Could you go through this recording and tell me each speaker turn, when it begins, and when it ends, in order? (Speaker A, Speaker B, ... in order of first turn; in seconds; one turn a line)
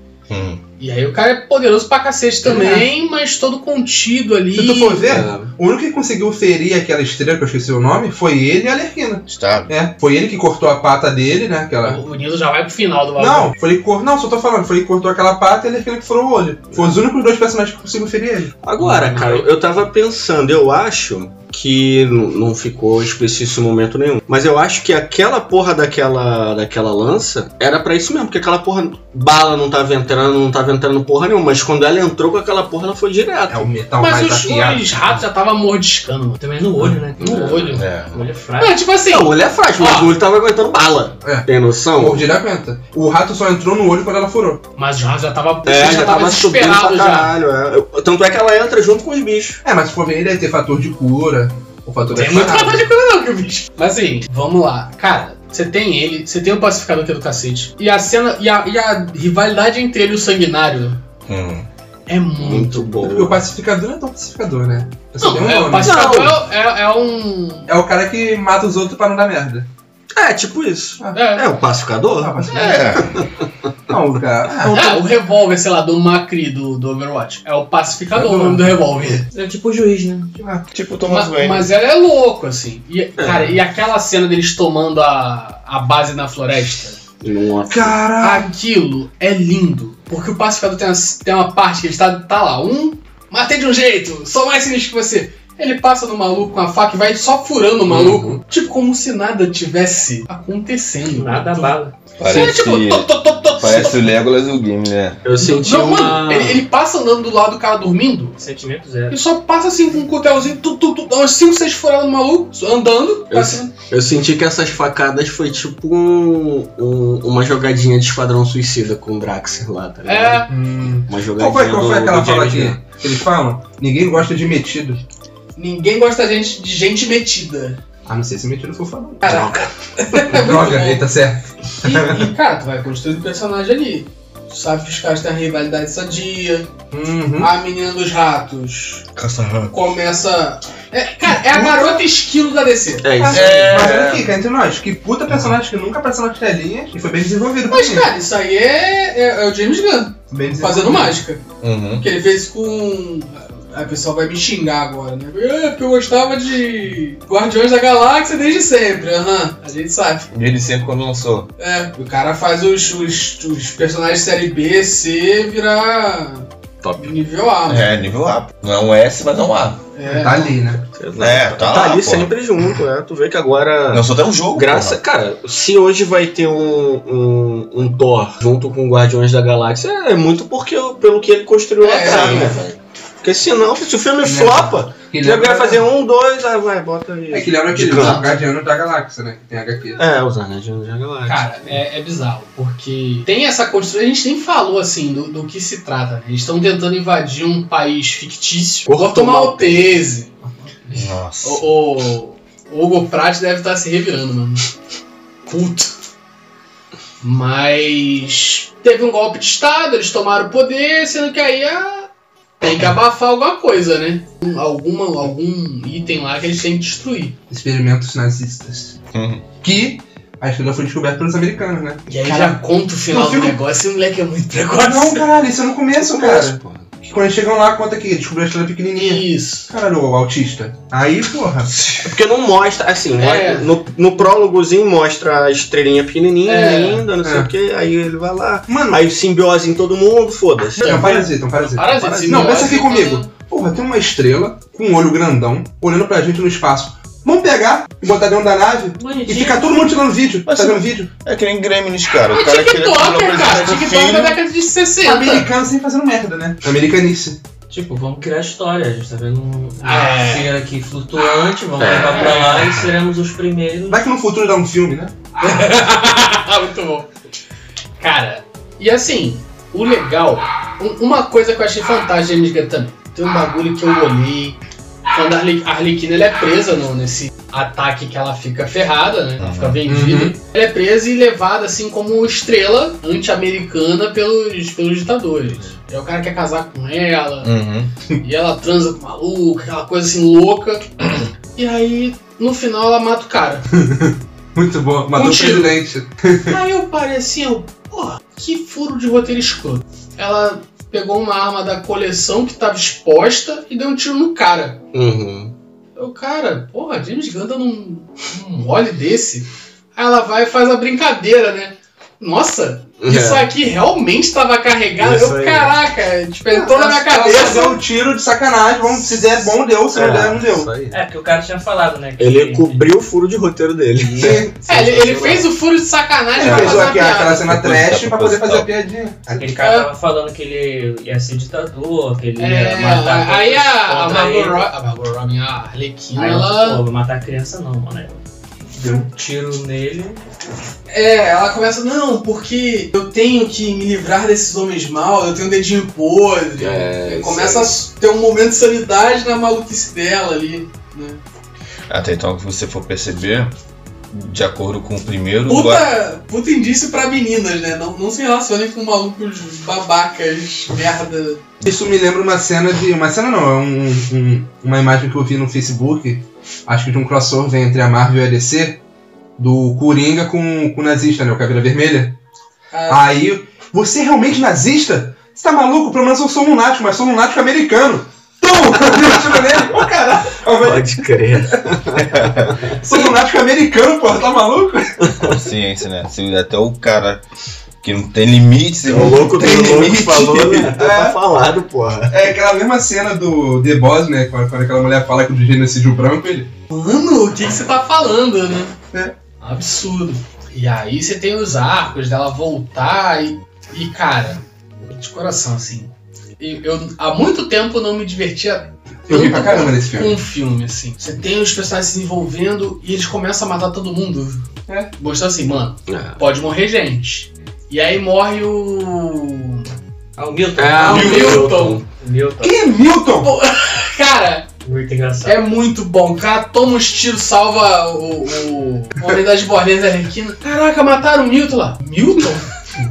Speaker A: 0.3-0.6
Speaker B: 0.8-5.2
Speaker C: 2.4-2.9
Speaker C: 4.5-12.0
Speaker D: 5.0-5.5
Speaker A: 9.3-9.7
Speaker B: 11.8-13.5
Speaker C: 13.2-19.2
Speaker D: 18.6-33.7
Speaker C: 33.5-34.9
Speaker B: 34.0-36.4
Speaker E: 36.4-38.8
Speaker B: 37.2-37.9
Speaker D: 37.2-37.5
Speaker A: 37.8-38.3
Speaker B: 38.6-40.1
Speaker D: 39.1-42.3
Speaker C: 41.2-44.6
Speaker B: 44.8-47.3
Speaker D: 45.6-49.6
Speaker C: 49.6-52.9
Speaker B: 52.1-61.0
Speaker A: 61.3-61.7
Speaker B: 62.1-62.9
Speaker D: 62.4-63.4
Speaker C: 63.0-66.1
Speaker B: 65.2-67.7
Speaker D: 65.8-66.4
Speaker C: 67.7-69.7
Speaker D: 70.1-73.3
Speaker B: 71.1-71.5
Speaker C: 72.1-73.1
Speaker B: 72.5-73.0
Speaker A: 72.5-73.2
Speaker C: 73.9-75.1
Speaker B: 74.7-79.3
Speaker C: 78.1-78.8
Speaker E: 79.3-80.3
Speaker C: 80.4-80.6
Speaker A: 80.7-81.7
Speaker B: 81.0-87.0
Speaker D: 83.2-83.6
Speaker D: 87.2-88.0
Speaker C: 87.7-88.5
Speaker B: 88.2-104.0
Speaker D: 97.9-98.4
Speaker E: 101.0-102.0
Speaker A: 102.2-105.2
Speaker D: 105.2-106.6
Speaker B: 105.4-108.4
Speaker E: 108.4-109.2
Speaker B: 109.1-113.7
Speaker D: 113.3-120.5
Speaker B: 120.0-120.5
Speaker C: 120.5-125.0
Speaker D: 121.1-122.8
Speaker B: 125.5-127.8
Speaker C: 128.1-129.5
Speaker B: 129.2-131.1
Speaker D: 129.3-129.7
Speaker C: 130.3-132.2
Speaker B: 131.8-136.7
Speaker C: 136.9-137.5
Speaker B: 137.3-139.1
Speaker A: 139.2-139.9
Speaker B: 139.7-143.3
Speaker C: 141.5-142.0
Speaker D: 143.0-144.1
Speaker C: 143.2-148.1
Speaker A: 143.3-144.3
Speaker B: 147.7-151.4
Speaker C: 150.3-151.2
Speaker A: 151.6-152.1
Speaker B: 152.0-160.3
Speaker A: 160.3-161.5
Speaker B: 161.6-167.9
Speaker D: 166.8-167.2
Speaker A: 167.7-169.8
Speaker B: 169.9-170.7
Speaker C: 170.0-170.8
Speaker D: 170.9-188.3
Speaker A: 171.2-172.3
Speaker A: 173.9-175.0
Speaker B: 181.8-182.6
Speaker A: 182.0-182.4
Speaker C: 184.2-185.9
Speaker C: 187.3-190.0
Speaker B: 187.9-188.3
Speaker D: 190.0-191.8
Speaker B: 191.2-204.6
Speaker D: 198.8-200.0
Speaker A: 200.9-201.6
Speaker B: 205.5-205.9
Speaker B: 207.2-212.1
Speaker B: 212.6-217.4
Speaker C: 217.5-219.0
Speaker A: 219.1-219.4
Speaker C: 219.6-222.6
Speaker B: 222.1-225.3
Speaker C: 223.1-223.6
Speaker C: 224.8-231.9
Speaker D: 226.0-226.9
Speaker B: 228.9-229.7
Speaker D: 232.0-241.2
Speaker B: 233.2-233.7
Speaker B: 236.4-237.1
Speaker C: 237.2-237.5
Speaker C: 238.7-239.0
Speaker B: 240.8-243.3
Speaker C: 240.8-251.1
Speaker E: 249.0-249.9
Speaker A: 250.5-254.4
Speaker B: 252.3-255.5
Speaker C: 255.0-257.4
Speaker E: 257.7-264.1
Speaker B: 259.8-260.5
Speaker D: 261.8-262.6
Speaker B: 262.1-262.8
Speaker C: 263.9-265.1
Speaker B: 265.4-267.1
Speaker B: 268.0-274.6
Speaker B: 275.1-287.5
Speaker A: 279.4-279.8
Speaker C: 279.9-280.4
Speaker A: 287.4-287.9
Speaker B: 288.2-290.9
Speaker B: 291.5-293.6
Speaker C: 293.7-296.6
Speaker B: 295.1-295.8
Speaker B: 296.5-304.8
Speaker D: 304.9-305.5
Speaker B: 306.0-317.8
Speaker D: 313.0-313.5
Speaker D: 315.0-315.7
Speaker C: 316.5-320.9
Speaker D: 319.9-321.0
Speaker E: 320.9-322.9
Speaker D: 322.2-325.5
Speaker C: 324.1-324.5
Speaker B: 324.6-327.5
Speaker C: 326.4-329.5
Speaker D: 326.4-326.9
Speaker A: 327.4-328.7
Speaker E: 329.4-334.7
Speaker B: 329.6-329.9
Speaker B: 332.4-336.8
Speaker E: 336.1-338.2
Speaker E: 338.8-340.2
Speaker C: 338.8-339.1
Speaker B: 340.9-351.2
Speaker D: 346.6-347.7
Speaker A: 351.9-353.5
Speaker A: 354.1-355.8
Speaker B: 355.5-361.4
Speaker C: 361.6-368.8
Speaker C: 369.4-372.2
Speaker B: 372.7-373.2
Speaker C: 372.9-381.4
Speaker D: 380.5-382.8
Speaker C: 382.1-385.1
Speaker D: 385.1-385.4
Speaker A: 385.2-387.2
Speaker A: 387.8-389.4
Speaker D: 388.8-392.2
Speaker C: 389.2-391.2
Speaker C: 392.1-396.5
Speaker B: 396.7-398.8
Speaker B: 399.4-419.7
Speaker C: 409.1-410.2
Speaker D: 415.9-416.2
Speaker E: 420.2-422.6
Speaker D: 420.6-421.8
Speaker B: 420.8-421.8
Speaker C: 420.8-421.5
Speaker C: 422.4-423.3
Speaker B: 423.2-424.5
Speaker E: 424.6-425.4
Speaker B: 425.2-432.5